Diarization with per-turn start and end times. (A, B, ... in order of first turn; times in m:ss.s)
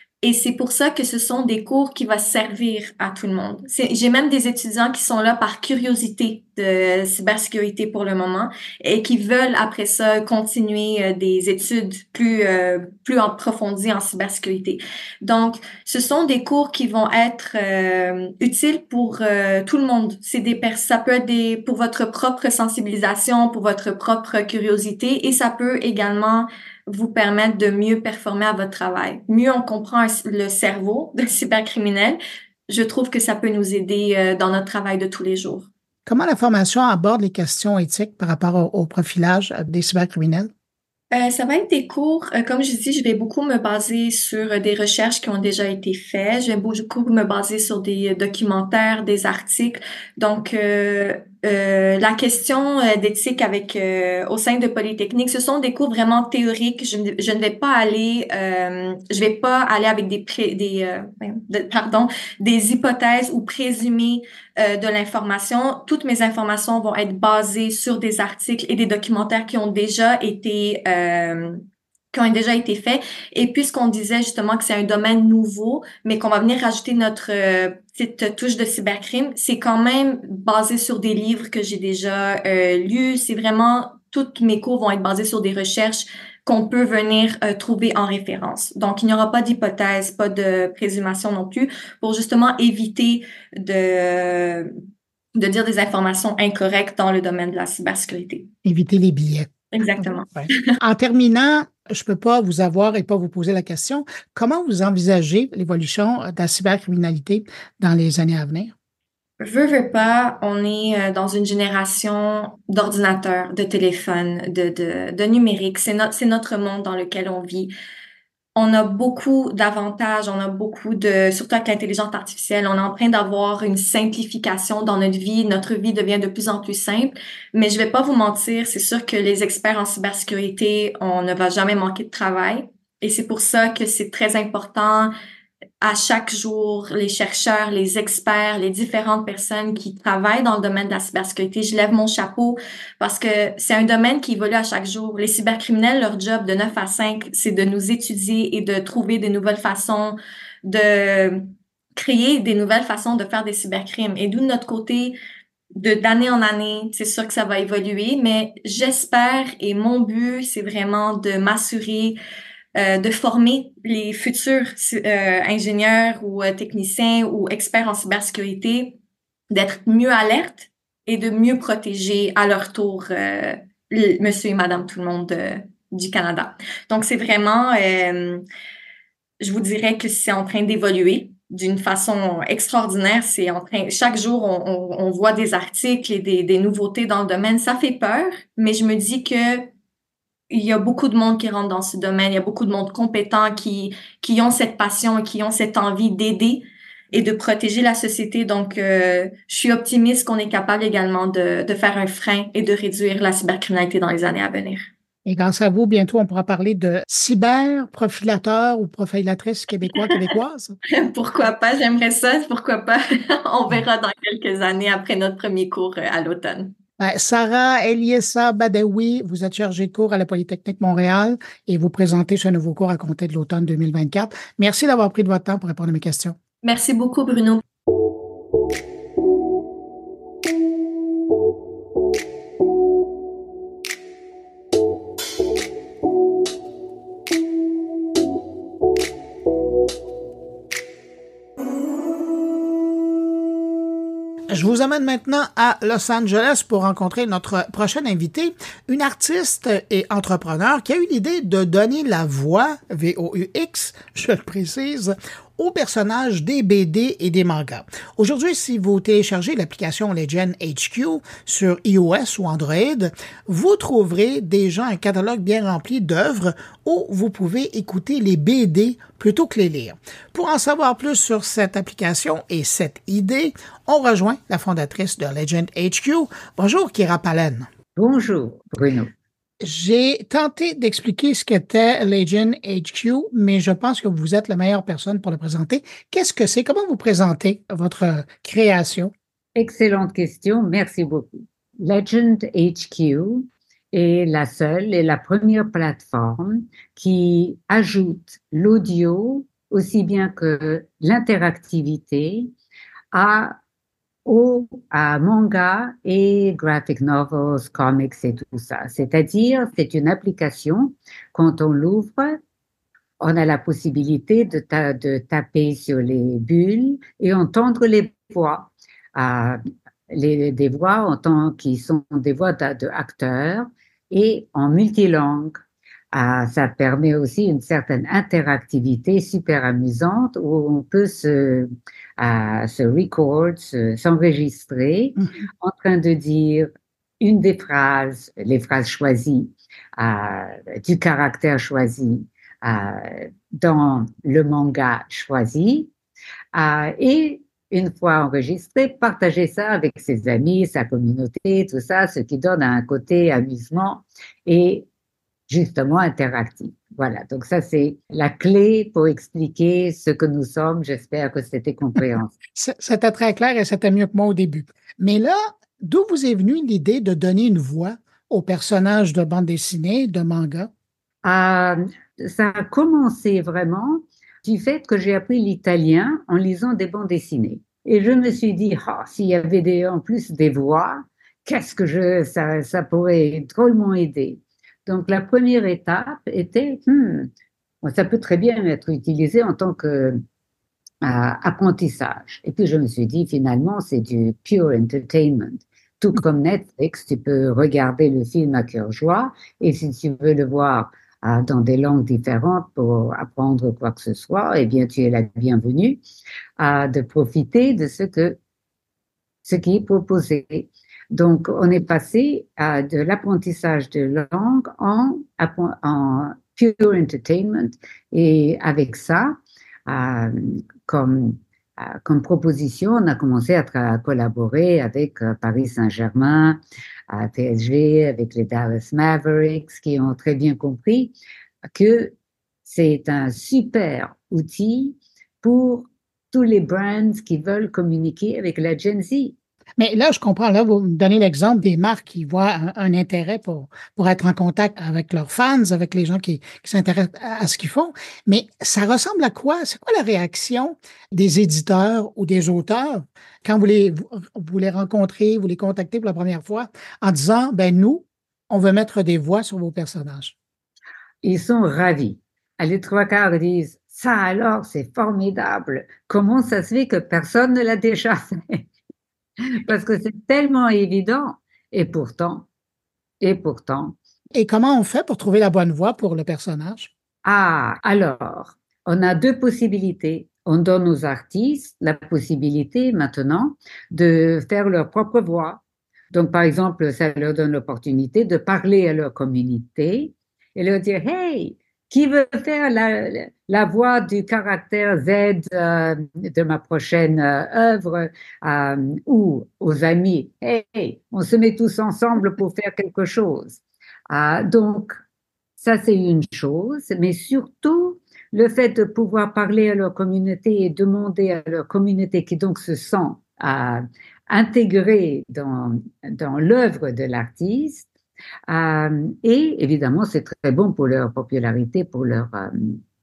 0:00.2-0:35.7 A
0:36.1-0:40.5 B
0:41.1-1:34.7 A
1:35.4-1:38.5 A
1:38.6-1:48.7 B
1:39.7-1:40.7 A
1:49.4-1:57.7 A
1:58.5-2:15.1 A
2:15.8-2:35.2 A
2:35.7-2:42.2 A
2:42.8-2:49.0 A
2:49.5-2:58.4 A
2:59.4-3:09.7 A
3:10.5-3:24.9 A
3:25.2-3:30.7 B
3:31.0-3:36.7 A
3:37.0-3:46.4 B
3:46.6-3:47.6 A
4:04.5-4:37.7 B
4:38.0-4:39.1 C
4:39.6-4:49.1 B
4:49.6-5:02.5 C
5:03.1-5:03.6 C
5:04.2-5:12.4 C
5:13.2-5:25.6 C
5:26.1-5:36.7 C
5:37.2-5:45.9 C
5:46.5-5:54.8 C
5:55.5-6:02.3 C
6:02.6-6:10.7 B
6:11.2-6:27.3 C
6:27.8-6:30.2 C
6:31.0-6:46.0 C
6:46.6-6:48.4 C
6:49.4-7:11.1 C
7:11.7-7:12.1 C
7:12.6-7:19.3 C
7:19.8-7:40.3 B
7:41.2-7:48.7 C
7:49.6-7:52.5 C
7:53.2-7:54.0 C
7:54.3-7:56.9 B
7:57.2-8:25.0 C
8:25.6-8:37.9 C
8:38.5-8:42.8 C